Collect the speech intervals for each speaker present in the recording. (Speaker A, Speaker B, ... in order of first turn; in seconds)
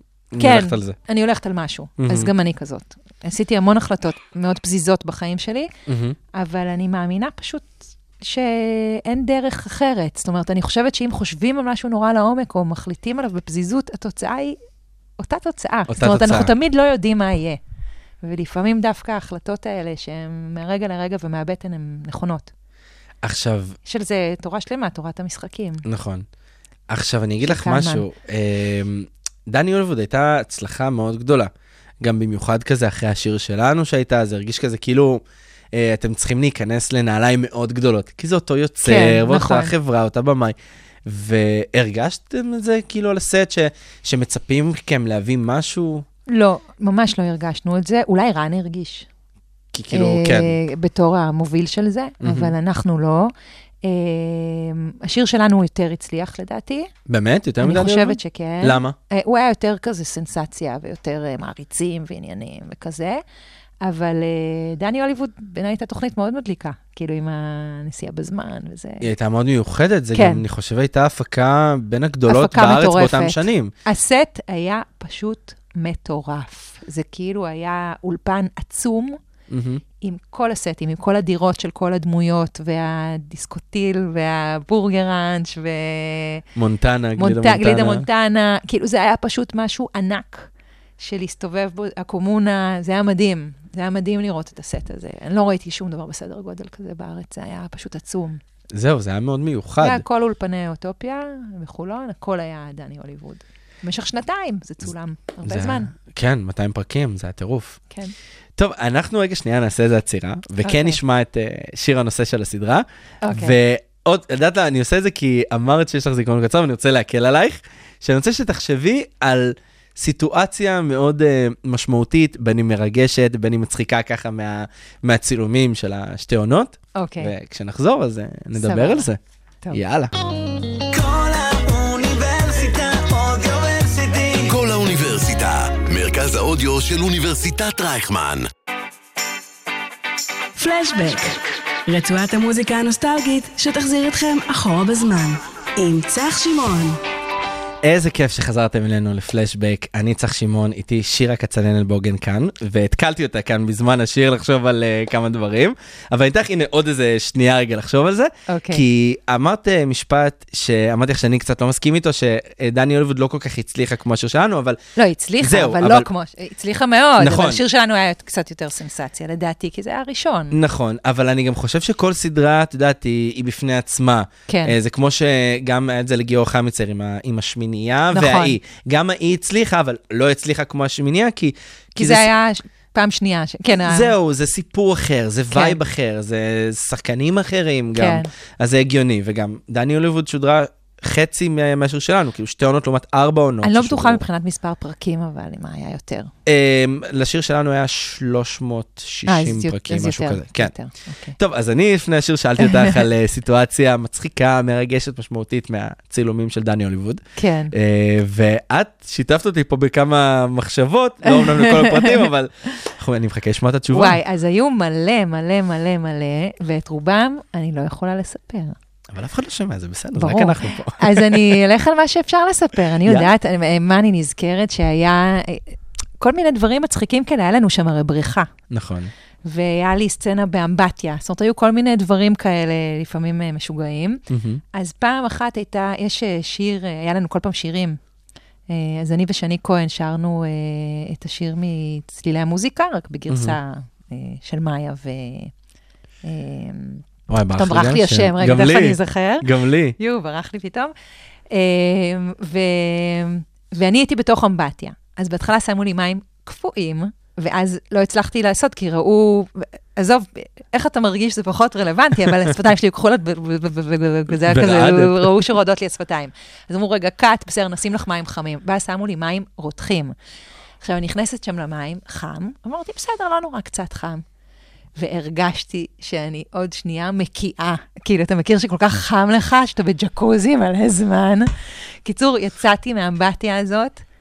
Speaker A: 0.3-1.0, 2.0-2.3, 5.9-6.2, 15.9-16.5, 23.2-23.8, 25.9-26.2, 26.9-46.1, 49.7-50.6, 52.2-52.5, 57.1-59.0, 69.0-73.7, 79.5-79.8, 86.5-88.0, 98.7-100.0, 105.4-107.8, 108.6-129.2, 129.7-130.1, 147.8-164.8, 165.4-166.1, 167.2-167.6, 170.5-182.3, 183.8-194.2, 196.5-200.7, 201.4-214.2, 219.1-221.6, 223.1-223.3, 228.7-229.1, 234.3-234.6, 243.3-243.6, 247.3-250.0, 264.4-265.4
Speaker B: 0.4-5.7, 6.3-14.6, 15.2-17.6, 18.2-22.5, 23.9-25.8, 27.4-28.1, 38.8-39.7, 46.3-49.1, 49.9-53.3, 53.8-56.9, 57.6-63.2, 63.8-69.1, 70.1-70.4, 72.3-79.2, 80.0-86.5, 87.2-98.4, 99.8-105.9, 110.6-111.0, 113.2-113.6, 127.0-127.3, 128.6-129.1, 158.5-158.8, 165.0-170.6, 174.5-174.8, 178.1-178.6, 182.0-184.1, 185.5-185.8, 187.9-188.3, 193.6-196.3, 199.3-201.4, 202.6-203.0, 207.4-207.7, 211.2-212.3, 213.9-218.8, 220.2-228.5, 229.4-238.0, 238.7-245.5, 246.2-250.9, 251.5-270.1, 270.8-274.2, 275.0-284.0
Speaker C: 130.9-134.5
Speaker D: 134.4-138.5
Speaker E: 140.6-147.0